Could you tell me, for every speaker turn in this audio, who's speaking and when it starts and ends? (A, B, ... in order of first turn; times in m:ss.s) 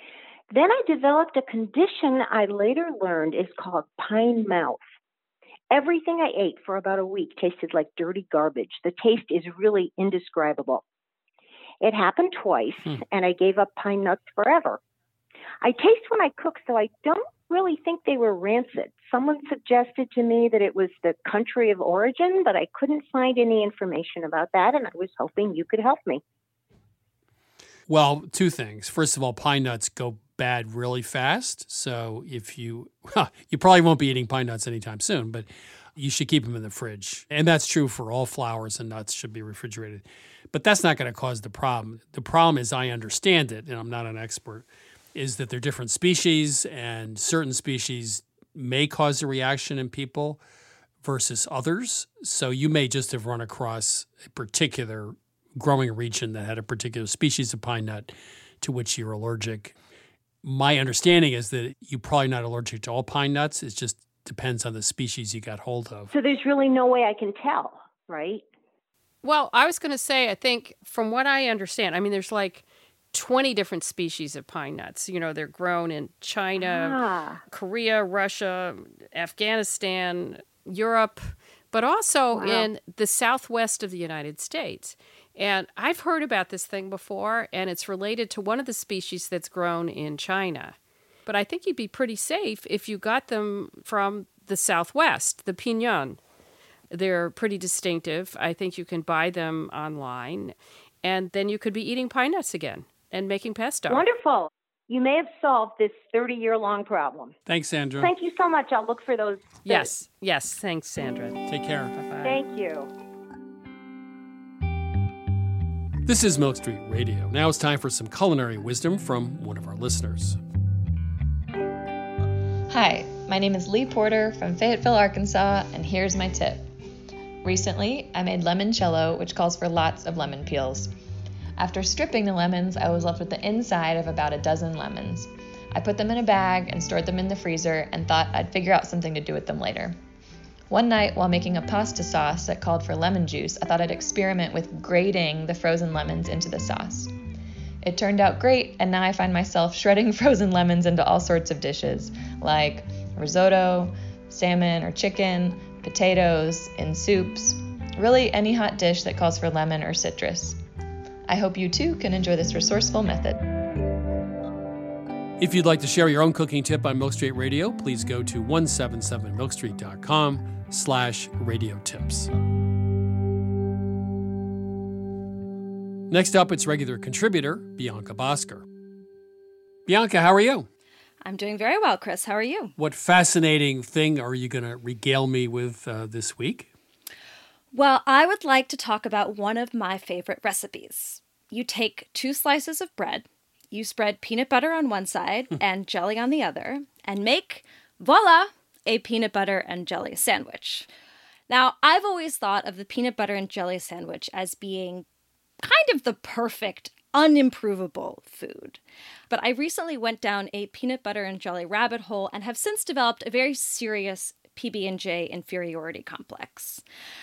0:00.5-0:04.8 A
0:05.7-0:10.8 A
0:11.8-0:14.8 A
0:15.6-0:26.2 A
0:27.9-0:50.4 B
0:51.0-0:59.8 B
1:00.4-1:06.1 B
1:06.1-1:08.4 A
1:09.2-1:36.2 C
1:16.6-1:17.4 A
1:22.3-1:22.7 A
1:36.9-1:44.0 C
1:43.9-1:47.3 A
1:47.5-1:48.1 B
1:48.0-1:49.9 A
1:49.6-1:51.4 C
1:51.5-1:52.0 B
1:52.0-1:52.4 C
1:52.2-1:52.9 A
1:56.0-2:00.4 B
2:02.7-2:06.6 D
2:07.4-2:10.9 D
2:11.6-2:20.0 D
2:20.7-2:27.1 D
2:27.8-2:40.6 D
2:41.3-2:43.4 D
2:45.4-2:52.3 B
2:56.1-2:58.6 B
2:59.8-3:00.7 B
3:01.2-3:02.7 E
3:02.8-3:06.7 B
3:07.7-3:20.9 E
3:21.5-3:25.0 E
3:25.6-3:36.8 E